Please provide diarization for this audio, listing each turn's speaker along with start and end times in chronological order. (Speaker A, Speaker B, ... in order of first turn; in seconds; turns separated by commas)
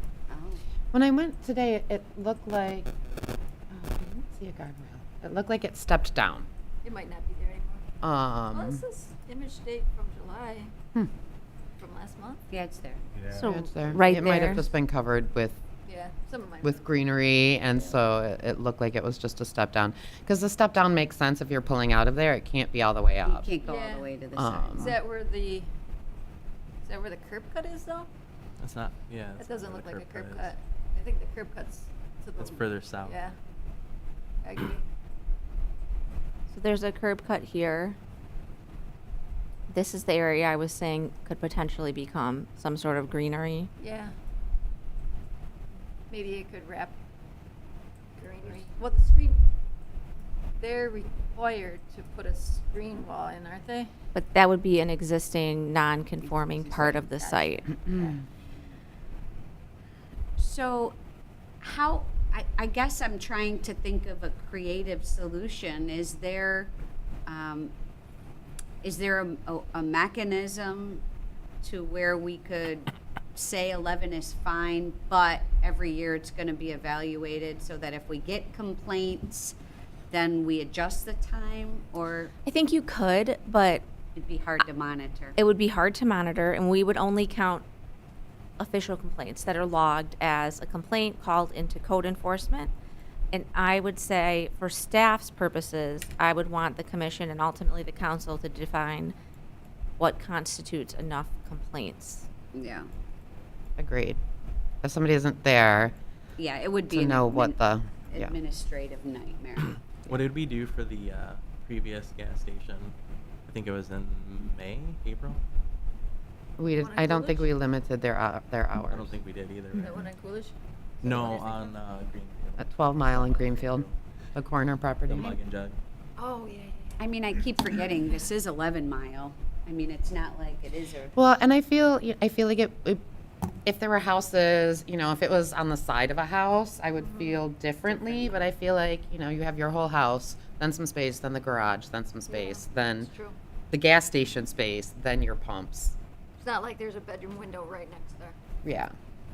Speaker A: 0.3-0.6, Speaker B: 0.9-2.9, Speaker B: 3.7-6.5, Speaker C: 6.8-7.9, Speaker B: 8.0-8.8, Speaker C: 8.5-10.7, Speaker C: 11.8-12.4, Speaker A: 12.5-13.0, Speaker D: 13.3-14.7, Speaker B: 13.3-15.6, Speaker C: 15.8-16.9, Speaker B: 16.6-23.5, Speaker A: 23.2-25.0, Speaker C: 23.6-24.1, Speaker B: 24.4-24.9, Speaker C: 24.8-25.7, Speaker C: 26.8-28.1, Speaker E: 28.6-30.5, Speaker C: 29.4-33.3, Speaker E: 32.4-33.2, Speaker C: 34.4-34.8, Speaker D: 36.5-38.0, Speaker D: 39.7-43.7, Speaker C: 43.8-44.1, Speaker C: 46.1-46.9, Speaker C: 48.2-49.4, Speaker C: 50.6-53.9, Speaker D: 54.1-57.8, Speaker A: 56.2-58.2, Speaker A: 60.4-60.9, Speaker A: 61.6-66.7, Speaker A: 67.2-67.7, Speaker A: 68.8-71.0, Speaker A: 71.6-79.5, Speaker A: 80.1-82.3, Speaker D: 82.4-83.8, Speaker A: 84.2-85.4, Speaker D: 85.3-87.6, Speaker D: 88.6-92.7, Speaker D: 93.3-99.1, Speaker D: 100.0-102.3, Speaker A: 102.5-102.9, Speaker B: 103.8-104.2, Speaker B: 104.8-105.9, Speaker A: 106.4-109.8, Speaker B: 106.9-108.3, Speaker E: 110.0-112.9, Speaker E: 113.5-115.4, Speaker B: 116.6-119.1, Speaker C: 116.8-117.5, Speaker E: 118.9-120.1, Speaker C: 119.8-121.8, Speaker E: 121.1-124.0, Speaker B: 122.6-125.3, Speaker E: 125.1-125.8, Speaker C: 126.2-127.0, Speaker A: 127.0-131.2, Speaker B: 131.2-133.0, Speaker B: 133.6-143.1, Speaker C: 136.9-137.4, Speaker C: 142.3-143.3, Speaker B: 143.7-145.9, Speaker C: 146.4-148.3, Speaker B: 148.6-148.9